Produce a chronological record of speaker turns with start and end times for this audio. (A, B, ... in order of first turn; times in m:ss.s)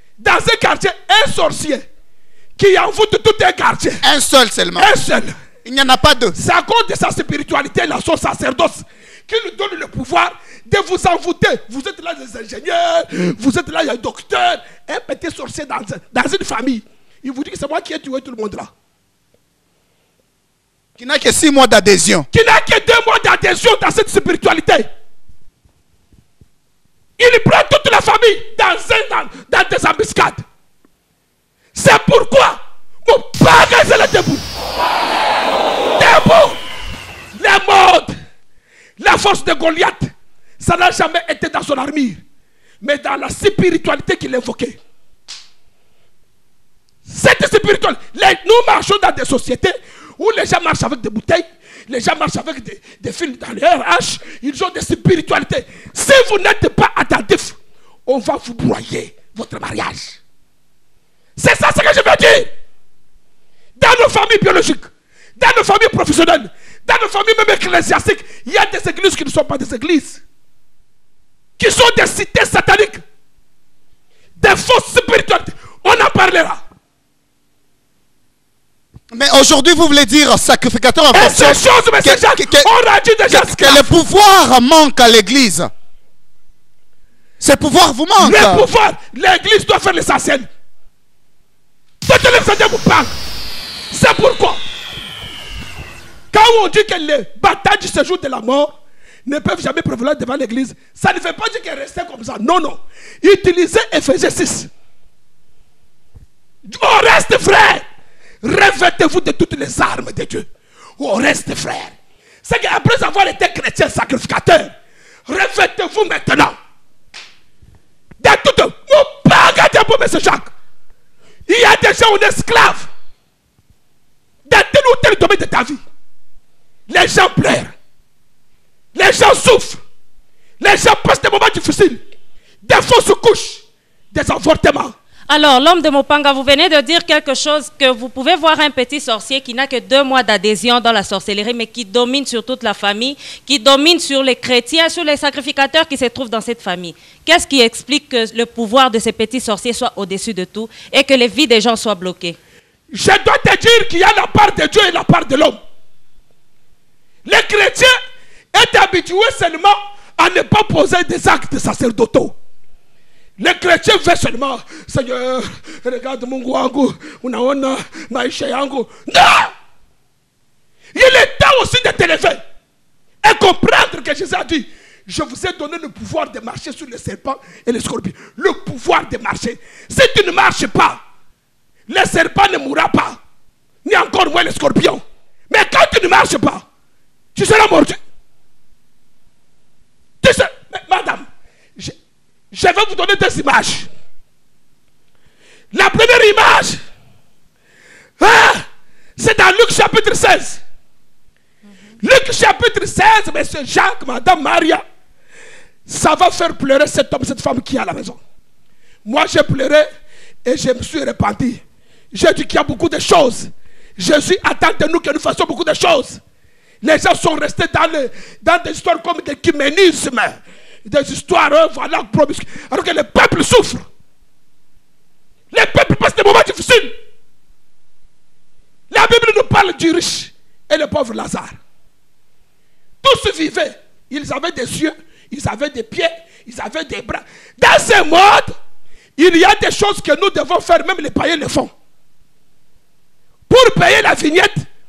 0:00.2-0:01.9 A
0:02.6-0:04.1 A
0:04.0-0:04.9 B
0:04.8-0:05.4 A
0:05.6-0:06.4 B
0:06.4-0:18.7 A
0:21.0-0:22.3 B
0:22.3-0:24.9 A
0:27.2-0:30.4 A
0:31.8-0:34.4 A
0:36.0-0:36.6 A
0:37.4-0:38.1 A
0:39.0-0:42.2 A
0:42.8-0:44.8 A
0:47.1-1:00.2 A
1:01.4-1:02.5 A
1:03.8-1:10.2 A
1:11.6-1:13.0 A
1:14.4-1:16.6 A
1:19.1-1:22.7 B
1:21.1-1:23.9 A
1:23.3-1:25.7 B
1:27.4-1:28.7 B
1:28.2-1:30.5 A
1:32.1-1:33.1 A
1:33.9-1:34.6 A
1:36.3-1:38.8 A
1:39.3-1:44.7 A
1:46.7-1:47.8 A
1:48.4-1:50.5 A
1:51.0-1:51.9 A
1:52.4-1:54.7 A
1:55.3-1:56.6 A
1:58.2-2:00.5 A
2:01.5-2:02.9 A
2:04.5-2:05.8 A
2:06.9-2:07.8 A
2:09.0-2:09.8 A
2:10.6-2:12.0 A
2:12.6-2:15.0 A
2:15.3-2:32.4 C
2:32.9-2:35.6 A
2:37.3-2:37.9 A
2:38.5-2:42.4 A
2:43.4-2:49.5 A
2:51.0-2:52.4 A
2:53.2-3:01.0 A
3:01.9-3:03.2 A
3:03.8-3:06.6 A
3:07.4-3:08.0 A
3:10.2-3:11.3 A
3:12.5-3:13.9 A
3:15.7-3:16.8 A
3:18.2-3:18.7 A
3:19.2-3:20.6 A
3:22.0-3:24.8 A
3:25.9-3:28.2 A
3:29.0-3:29.9 A
3:30.4-3:36.2 A
3:36.8-3:43.9 A
3:45.5-3:46.9 A
3:48.9-3:51.6 A
3:53.0-3:58.5 A
3:59.2-4:01.7 A
4:03.5-4:04.7 A